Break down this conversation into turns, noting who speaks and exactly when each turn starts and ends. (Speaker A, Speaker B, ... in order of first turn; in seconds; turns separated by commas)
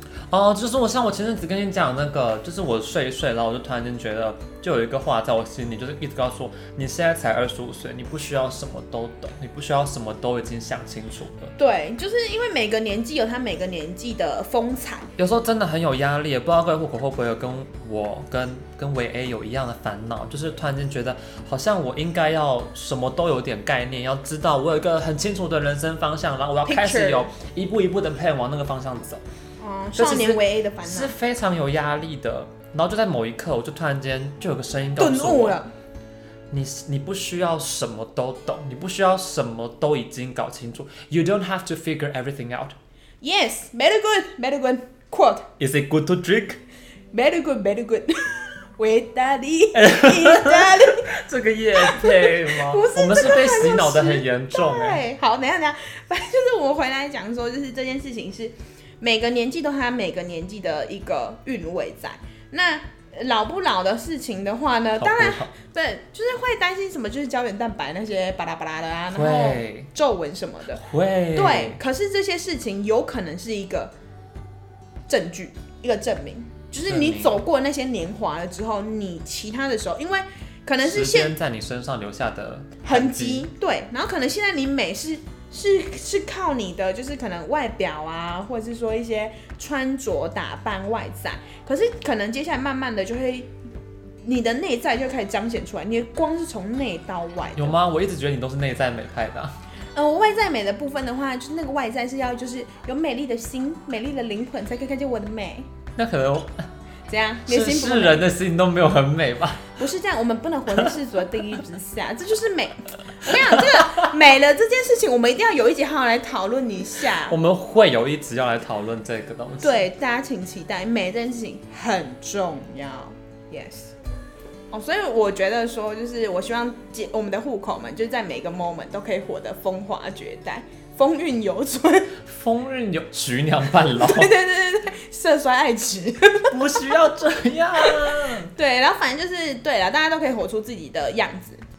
Speaker A: 0.3-11.5, Speaker B: 11.6-15.1, Speaker A: 15.2-29.2, Speaker B: 26.6-27.3, Speaker B: 29.6-31.1, Speaker A: 29.9-35.6, Speaker B: 35.0-35.7, Speaker A: 36.5-42.8, Speaker B: 43.2-45.5, Speaker A: 45.6-46.6, Speaker B: 47.1-51.1, Speaker A: 49.7-55.0, Speaker B: 51.7-73.9, Speaker A: 65.0-65.5, Speaker A: 69.1-69.9, Speaker A: 70.8-71.8, Speaker B: 75.1-81.3, Speaker A: 76.9-77.4, Speaker A: 80.8-83.5, Speaker B: 82.8-93.5, Speaker B: 94.2-97.8, Speaker A: 97.5-99.6, Speaker B: 99.9-105.7, Speaker A: 106.0-106.7, Speaker B: 107.1-108.3, Speaker A: 107.5-109.8, Speaker B: 109.8-117.4, Speaker A: 113.3-114.1, Speaker A: 117.3-119.8, Speaker B: 119.6-123.9, Speaker B: 124.7-132.1, Speaker A: 132.2-134.3, Speaker B: 133.9-136.9, Speaker A: 136.5-138.5, Speaker B: 137.8-141.6